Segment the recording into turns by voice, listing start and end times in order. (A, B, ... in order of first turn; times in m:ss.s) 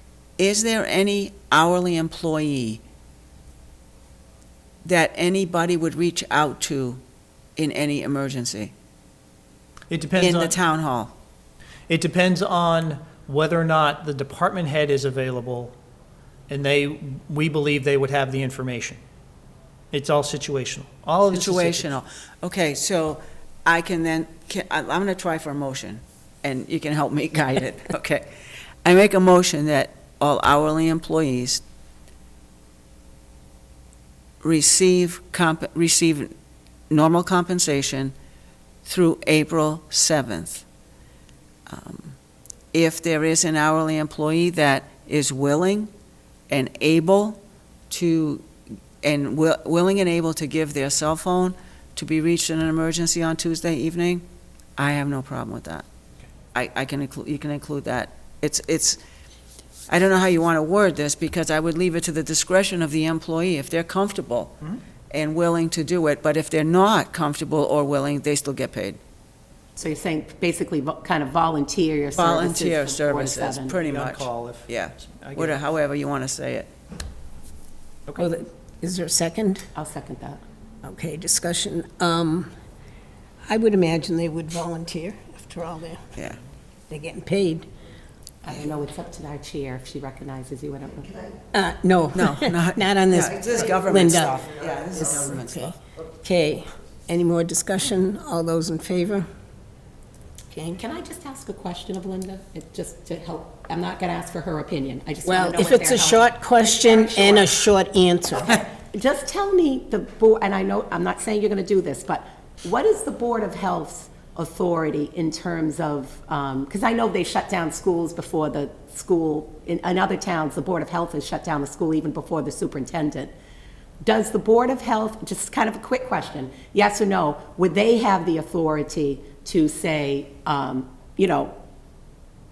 0:00.4-0:02.8 A
0:04.8-0:07.0 A
0:07.6-0:08.7 A
0:09.9-0:10.6 B
0:10.2-0:11.1 A
0:11.9-0:15.8 B
0:16.5-0:19.0 B
0:19.9-0:21.9 B
0:21.3-0:28.3 A
0:28.8-0:31.6 A
0:34.4-0:36.3 A
0:36.9-0:38.1 A
0:38.8-0:40.7 A
0:41.7-0:42.2 A
0:42.7-0:45.9 A
0:46.5-0:48.5 A
0:49.0-0:54.2 A
0:54.8-0:55.8 A
0:56.5-0:59.0 A
0:59.9-1:04.5 A
1:05.1-1:09.0 A
1:09.8-1:13.8 C
1:12.2-1:16.7 A
1:13.7-1:15.6 B
1:18.2-1:19.7 D
1:19.8-1:20.4 C
1:20.8-1:22.5 D
1:23.5-1:26.0 D
1:26.2-1:26.4 A
1:26.9-1:27.7 D
1:28.4-1:31.2 C
1:31.5-1:34.5 D
1:32.1-1:35.8 A
1:35.4-1:39.3 D
1:40.5-1:40.8 D
1:40.8-1:47.5 C
1:45.2-1:48.6 D
1:48.6-2:03.3 C
2:04.0-2:11.6 C